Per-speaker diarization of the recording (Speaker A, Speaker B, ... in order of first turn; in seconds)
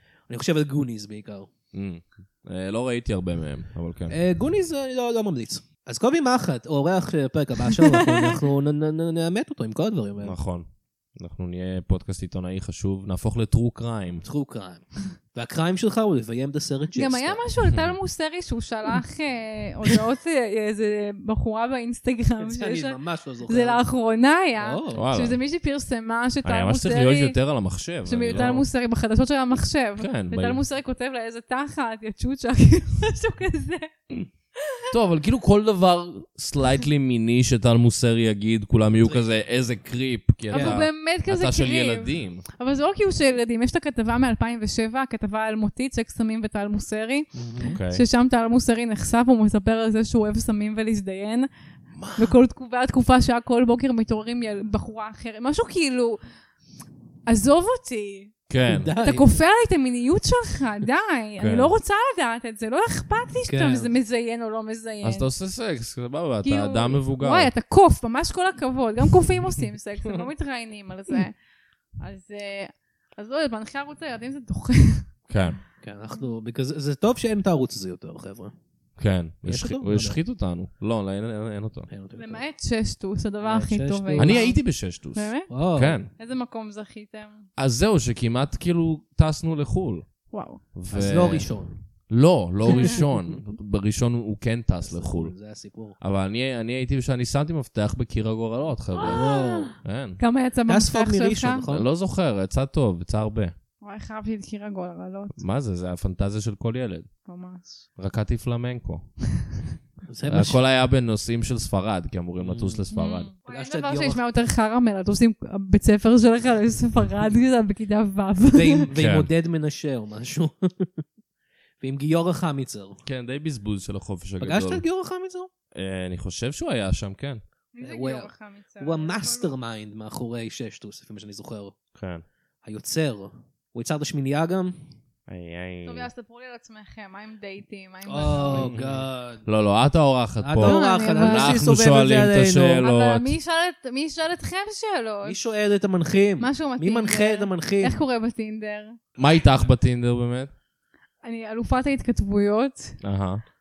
Speaker A: 0.3-1.5, 4.1-10.4, 14.2-17.4, 22.4-23.8, 24.6-25.0, 28.3-28.6, 39.0-39.3, 40.5-40.8, 47.4-47.8, 58.7-59.4, 63.5-63.9, 75.8-78.5, 79.5-80.2, 81.9-82.4, 83.4-84.5, 85.5-86.0, 90.9-91.7, 94.8-96.0, 99.0-99.8, 100.7-101.9, 110.1-110.6, 112.4-112.9, 113.5-114.2, 118.5-121.0, 121.8-123.0, 124.4-125.5, 127.8-131.8, 132.6-134.8, 138.1-139.4, 140.4-142.8, 145.2-148.0
Speaker B: 1.7-4.2, 10.2-14.2, 17.7-17.9, 24.9-25.4, 26.4-28.6, 30.0-30.6, 34.9-42.5, 47.6-48.0, 52.0-52.3, 58.5-58.9, 61.4-61.7, 65.0-67.5, 75.3-75.6, 79.0-81.9, 84.2-86.1, 87.6-90.1, 90.8-91.5, 92.1-95.3, 96.0-99.2, 99.8-100.2, 101.7-103.5, 105.4-107.1, 108.0-109.1, 110.3-113.3, 119.0-119.3, 123.1-124.8, 125.7-127.4, 131.9-132.2, 135.3-136.1, 138.5-143.3, 149.2-150.5, 153.0-153.4
Speaker C: 7.7-8.4, 16.9-23.0, 23.5-27.4, 28.1-33.9, 40.5-51.5, 52.1-56.2, 57.3-58.3, 59.0-65.3, 66.4-71.3, 72.0-75.1, 82.2-84.6, 85.1-85.5, 86.2-87.5, 90.3-90.6, 92.7-93.0, 99.0-101.6, 103.8-105.4, 107.3-107.8, 112.9-118.8, 127.7-129.5, 135.8-138.7, 140.6-141.6, 142.8-145.4, 146.4-149.0, 151.2-153.0